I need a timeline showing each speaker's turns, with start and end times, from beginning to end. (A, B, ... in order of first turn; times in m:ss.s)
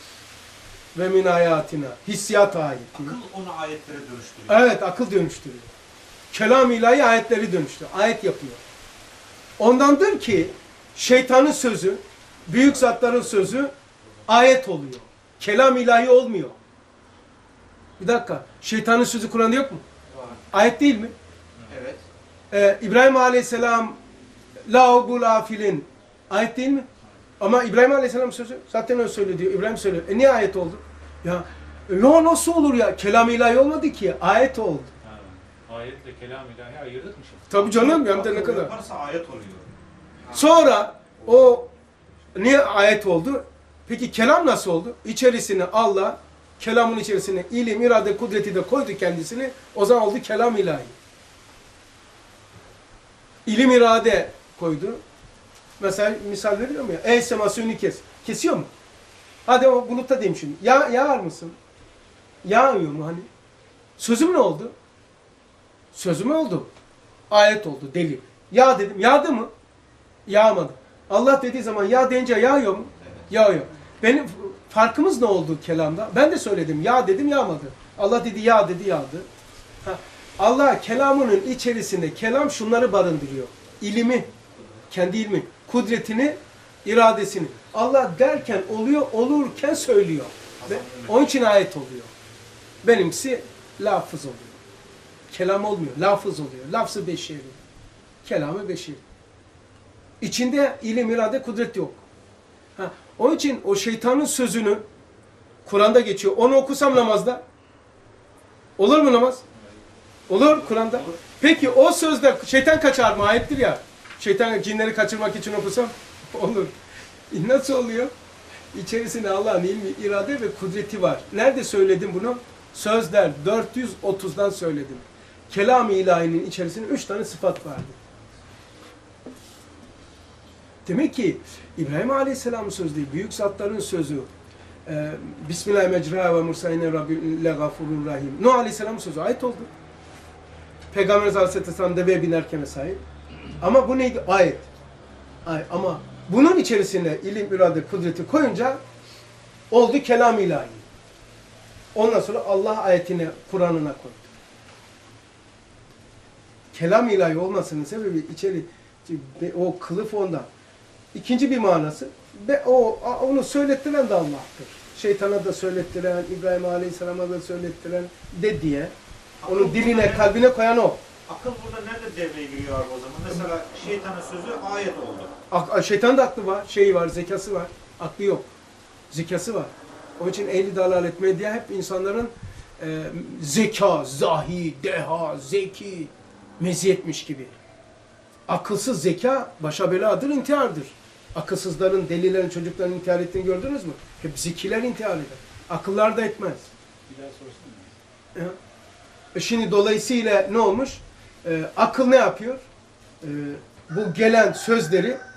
0:00.9-0:03.2 A
0:02.9-0:04.7 B
0:04.5-0:05.7 A
0:06.3-0:08.6 A
0:09.6-0:13.7 A
0:14.3-0:16.6 A
0:18.0-0:19.8 A
0:20.1-0:20.4 B
0:20.5-0:21.1 A
0:21.6-0:22.0 B
0:22.5-0:24.0 A
0:24.6-0:26.9 A
0:27.4-0:34.9 A
0:35.0-0:37.7 C
0:37.5-0:38.7 A
0:37.7-0:39.7 B
0:40.3-0:40.6 B
0:40.3-0:41.7 A
0:42.3-0:50.9 A
0:53.4-0:55.0 A
0:55.8-0:58.7 A
0:59.4-1:01.6 A
1:02.4-1:03.3 A
1:04.0-1:04.7 A
1:05.9-1:06.7 A
1:07.3-1:09.5 A
1:10.2-1:19.3 A
1:19.8-1:24.3 A
1:24.9-1:32.1 A
1:30.6-1:31.3 B
1:32.8-1:34.6 A
1:35.3-1:37.6 A
1:38.2-1:39.0 A
1:40.2-1:42.0 A
1:42.8-1:44.8 A
1:45.6-1:47.4 A
1:48.8-1:49.4 A
1:50.3-1:56.7 A
1:50.5-1:51.2 B
1:57.3-1:58.1 A
1:58.7-2:08.0 A
2:10.8-2:14.3 A
2:14.8-2:19.7 A
2:20.9-2:23.0 A
2:23.6-2:24.7 A
2:25.4-2:28.8 A
2:29.7-2:30.8 A
2:31.9-2:34.3 A
2:36.7-2:40.5 A
2:41.1-2:48.9 A
2:49.4-2:50.3 B
2:49.4-2:51.0 A
2:51.3-2:55.3 B
2:55.5-2:58.5 A
2:59.1-3:07.5 A
3:08.5-3:16.7 A
3:17.1-3:17.9 C
3:19.3-3:22.6 A
3:23.2-3:25.2 A